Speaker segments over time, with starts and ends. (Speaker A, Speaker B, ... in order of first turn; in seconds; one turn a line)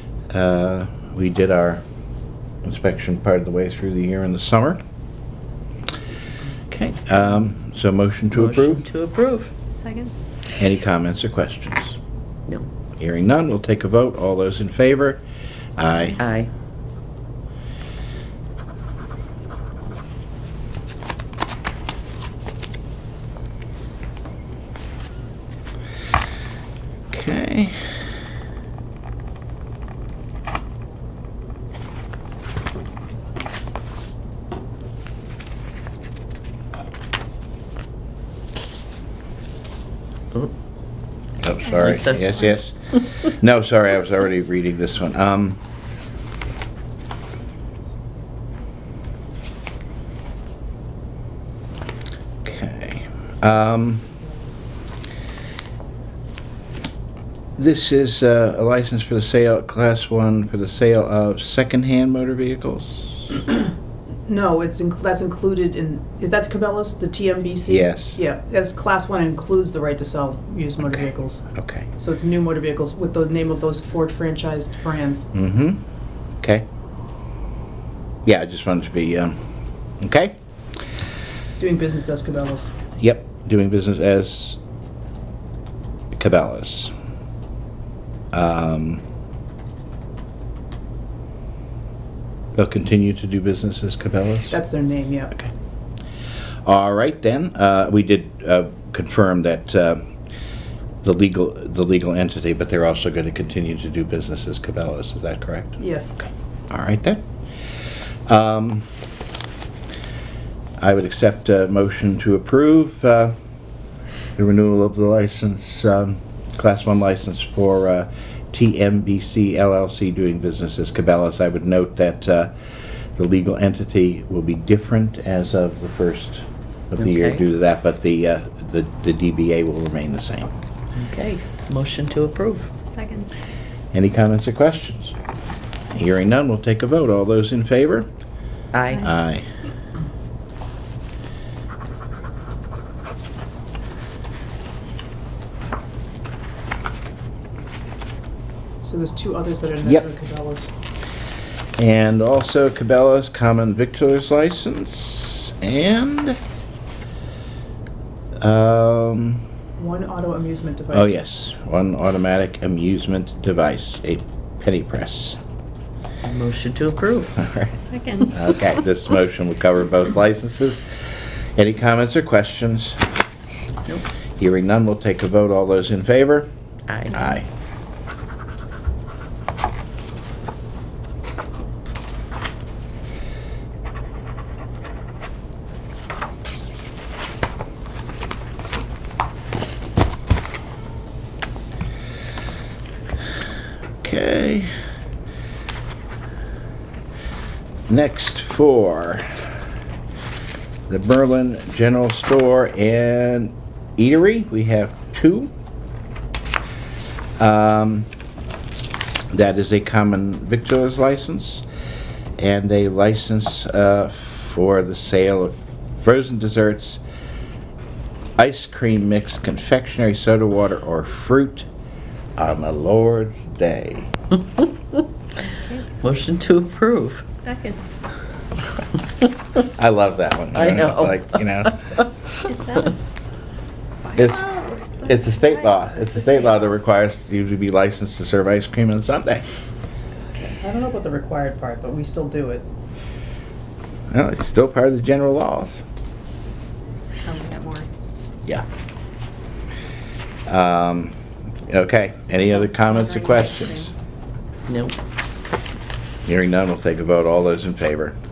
Speaker A: 0.3-1.8
Speaker A: 2.6-4.8
Speaker A: 6.7-8.8
Speaker B: 8.3-9.5
Speaker C: 9.8-10.1
Speaker A: 10.6-12.0
Speaker A: 13.0-15.2
Speaker A: 15.8-16.2
Speaker B: 16.2-16.5
Speaker A: 27.1-27.8
Speaker A: 41.4-45.6
Speaker B: 41.8-43.0
Speaker A: 52.4-54.0
Speaker D: 54.1-54.6
Speaker A: 57.6-63.3
Speaker D: 63.4-63.7
Speaker D: 64.3-75.3
Speaker A: 67.7-68.2
Speaker A: 70.8-71.9
Speaker A: 75.3-75.8
Speaker A: 76.4-76.6
Speaker A: 78.2-79.4
Speaker A: 80.0-80.4
Speaker D: 81.6-82.7
Speaker A: 83.0-84.6
Speaker A: 86.1-86.9
Speaker A: 88.3-89.0
Speaker A: 92.5-94.5
Speaker D: 94.5-95.3
Speaker A: 96.7-100.0
Speaker A: 101.0-107.2
Speaker D: 105.8-106.2
Speaker A: 108.3-108.9
Speaker A: 110.8-113.3
Speaker A: 114.3-122.5
Speaker A: 123.2-130.5
Speaker B: 127.0-127.4
Speaker B: 130.9-132.7
Speaker C: 132.9-133.3
Speaker A: 133.9-135.1
Speaker A: 135.9-138.1
Speaker B: 138.7-139.1
Speaker A: 139.0-139.4
Speaker D: 148.8-150.7
Speaker A: 151.8-156.4
Speaker A: 158.4-159.4
Speaker D: 159.8-161.1
Speaker A: 160.9-165.4
Speaker B: 166.2-167.3
Speaker A: 167.4-167.7
Speaker C: 167.9-168.2
Speaker A: 168.3-170.8
Speaker A: 171.6-173.0
Speaker A: 174.4-176.5
Speaker B: 176.9-177.2
Speaker A: 177.1-177.5
Speaker A: 194.0-194.7
Speaker A: 197.9-199.4
Speaker A: 200.9-205.5
Speaker A: 207.4-208.1
Speaker A: 209.3-211.6
Speaker A: 212.4-217.0
Speaker A: 218.4-221.7
Speaker A: 222.4-224.1
Speaker B: 224.6-225.0
Speaker C: 225.4-225.8
Speaker B: 226.0-227.2
Speaker C: 227.3-227.8
Speaker A: 229.6-231.8
Speaker B: 230.5-232.1
Speaker C: 232.4-232.9
Speaker C: 234.0-236.7
Speaker A: 234.1-234.5
Speaker A: 235.0-239.4
Speaker D: 240.5-242.7
Speaker A: 244.1-245.8
Speaker C: 247.2-247.9
Speaker A: 250.5-251.1
Speaker A: 251.7-253.9
Speaker C: 252.7-253.4
Speaker B: 254.7-254.9
Speaker A: 256.2-258.2